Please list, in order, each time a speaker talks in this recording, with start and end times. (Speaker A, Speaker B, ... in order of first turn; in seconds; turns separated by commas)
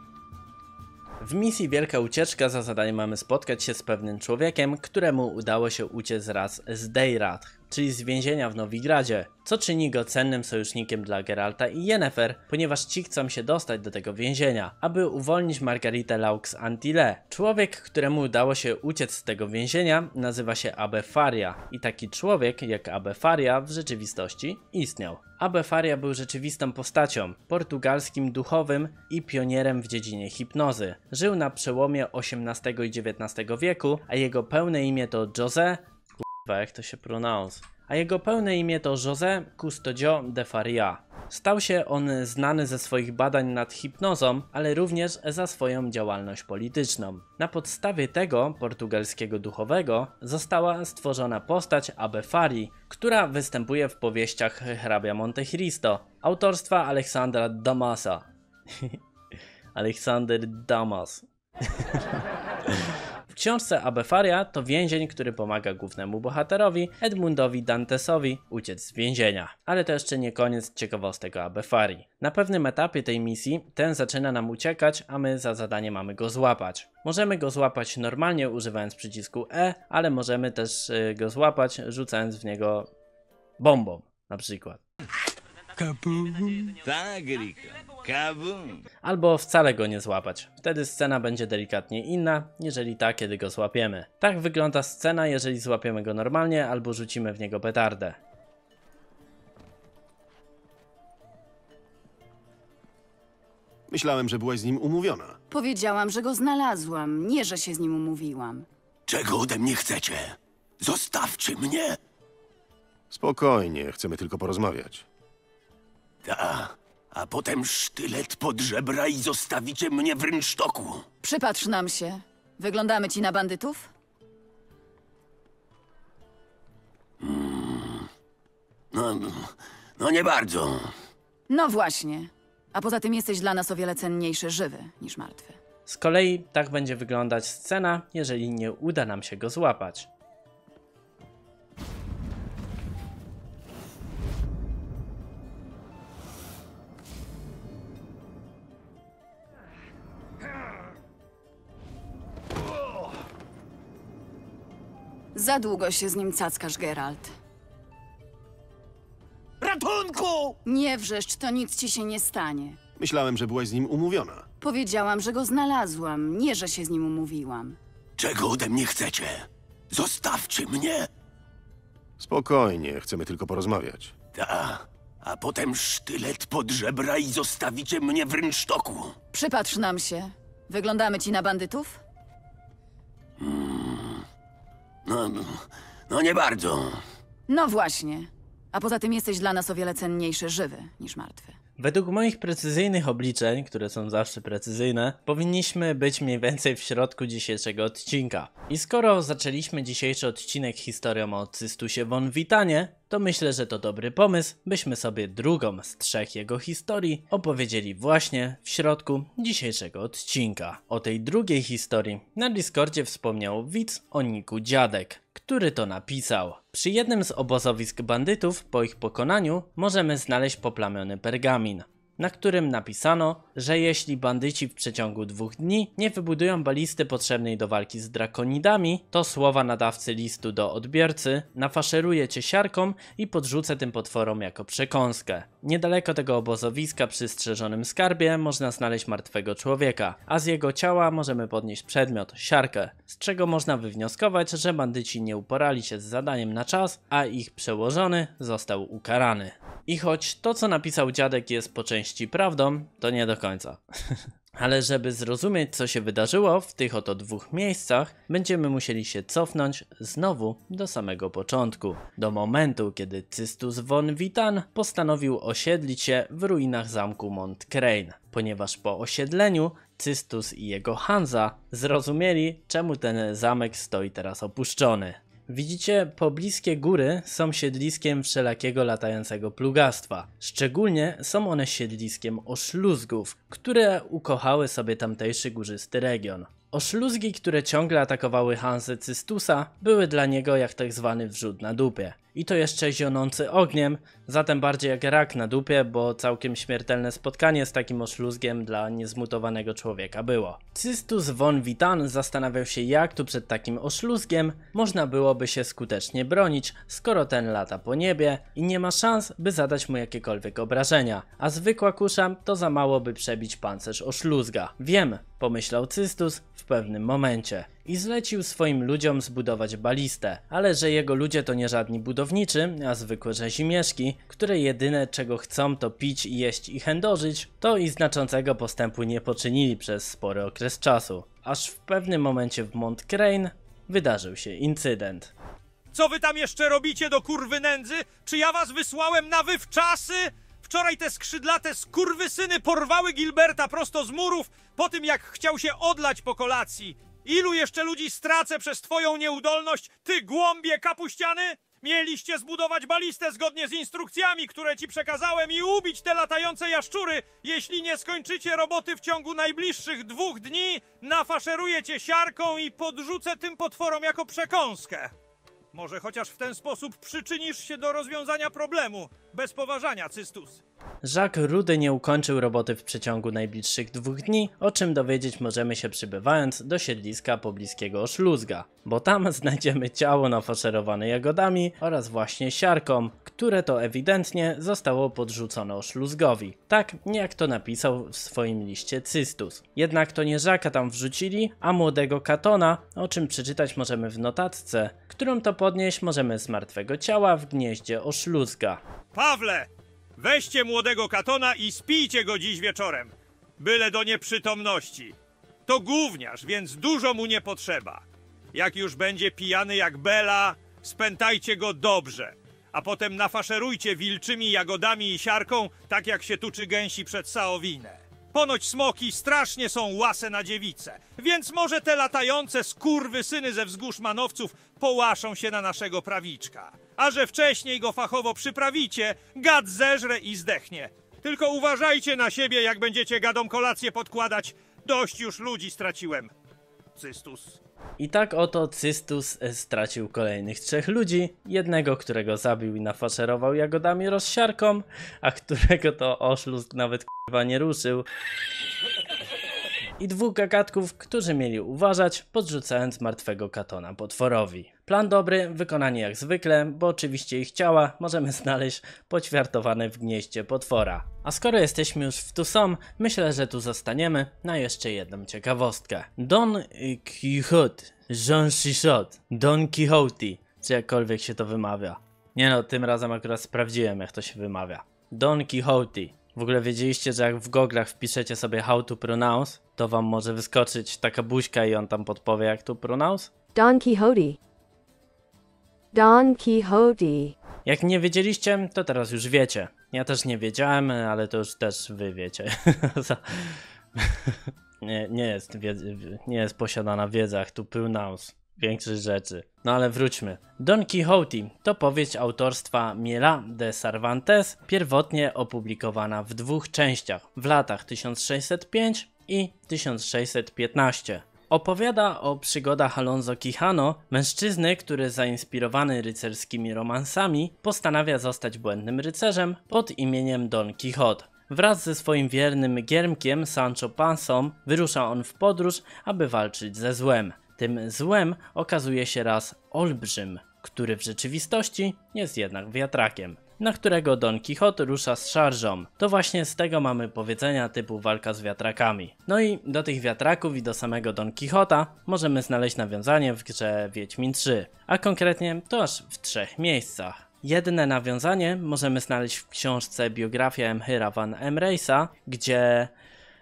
Speaker A: 1.2-59.0, Speaker A: 59.8-61.2, Speaker A: 63.3-82.9, Speaker A: 83.6-84.8, Speaker B: 85.8-88.8, Speaker A: 89.0-98.2, Speaker C: 103.9-105.4, Speaker D: 105.5-108.7, Speaker E: 109.1-112.0, Speaker C: 113.1-115.1, Speaker E: 116.2-121.1, Speaker D: 121.2-123.9, Speaker E: 127.2-128.1, Speaker E: 128.9-130.9, Speaker D: 131.5-135.6, Speaker A: 135.9-140.1, Speaker D: 155.3-157.3, Speaker E: 159.6-160.6, Speaker D: 160.7-162.8, Speaker C: 163.0-164.5, Speaker D: 164.6-167.8, Speaker E: 168.2-171.1, Speaker C: 172.2-174.2, Speaker E: 174.3-179.2, Speaker D: 179.3-182.0, Speaker E: 183.4-184.2, Speaker E: 185.1-187.0, Speaker D: 187.5-191.6, Speaker A: 191.8-253.8, Speaker A: 254.6-335.3, Speaker F: 335.9-365.1, Speaker F: 365.7-370.6, Speaker A: 371.0-398.8, Speaker F: 399.1-405.1, Speaker F: 405.7-408.0, Speaker F: 408.5-436.3, Speaker F: 437.0-437.6, Speaker A: 438.0-448.0, Speaker A: 450.0-483.3, Speaker G: 483.6-484.4, Speaker G: 485.9-487.4, Speaker A: 487.7-552.9